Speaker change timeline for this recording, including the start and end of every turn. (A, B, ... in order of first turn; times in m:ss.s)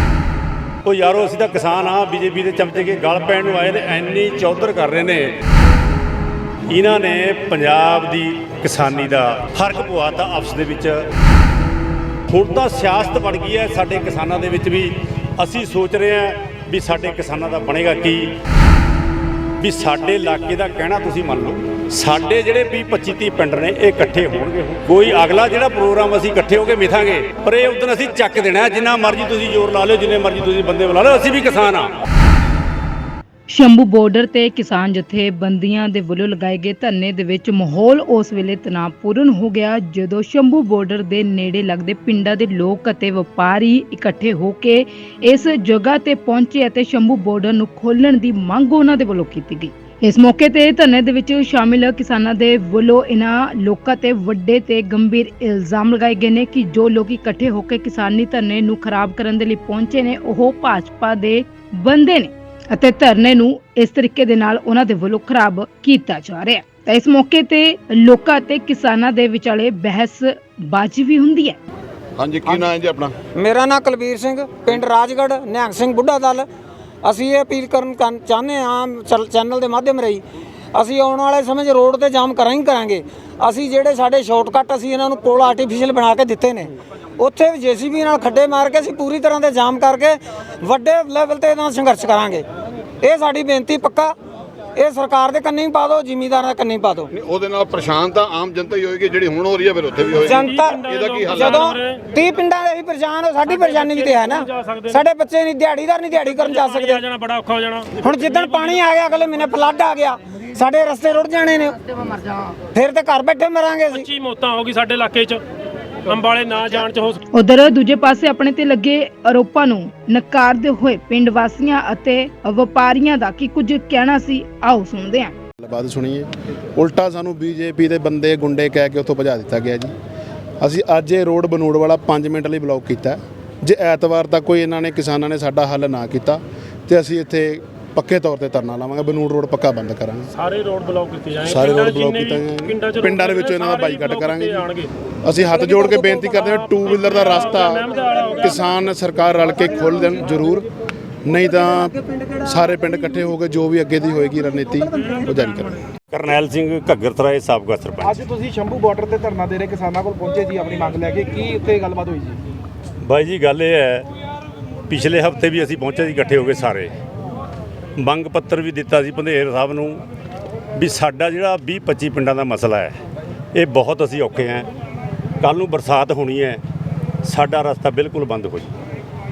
0:00.8-0:05.3 A
0:06.7-0:11.0 A
0:12.3-0:18.3 A
0:19.6-0:32.0 A
0:33.5-1:11.6 B
1:12.2-1:13.1 C
1:13.3-1:16.5 D
1:17.0-1:32.4 D
1:33.0-1:34.1 D
1:34.8-1:37.1 D
1:37.1-1:41.6 C
1:40.2-1:47.0 D
1:40.2-1:42.1 E
1:43.5-1:45.0 E
1:46.2-1:48.8 E
1:48.0-1:52.0 D
1:52.7-1:54.1 D
1:53.9-1:55.4 E
1:56.0-1:57.2 E
1:57.3-2:05.4 B
2:05.6-2:09.9 F
2:10.6-2:20.3 F
2:20.4-2:24.9 E
2:21.4-2:24.6 F
2:25.2-2:30.7 F
2:25.8-2:28.6 E
2:31.2-2:35.8 F
2:36.1-2:38.2 A
2:38.0-2:42.4 G
2:43.0-2:44.1 A
2:44.9-2:46.9 A
2:48.0-2:50.0 A
2:50.8-2:53.0 A
2:53.5-2:54.7 A
2:55.4-2:56.6 A
2:57.2-2:58.7 A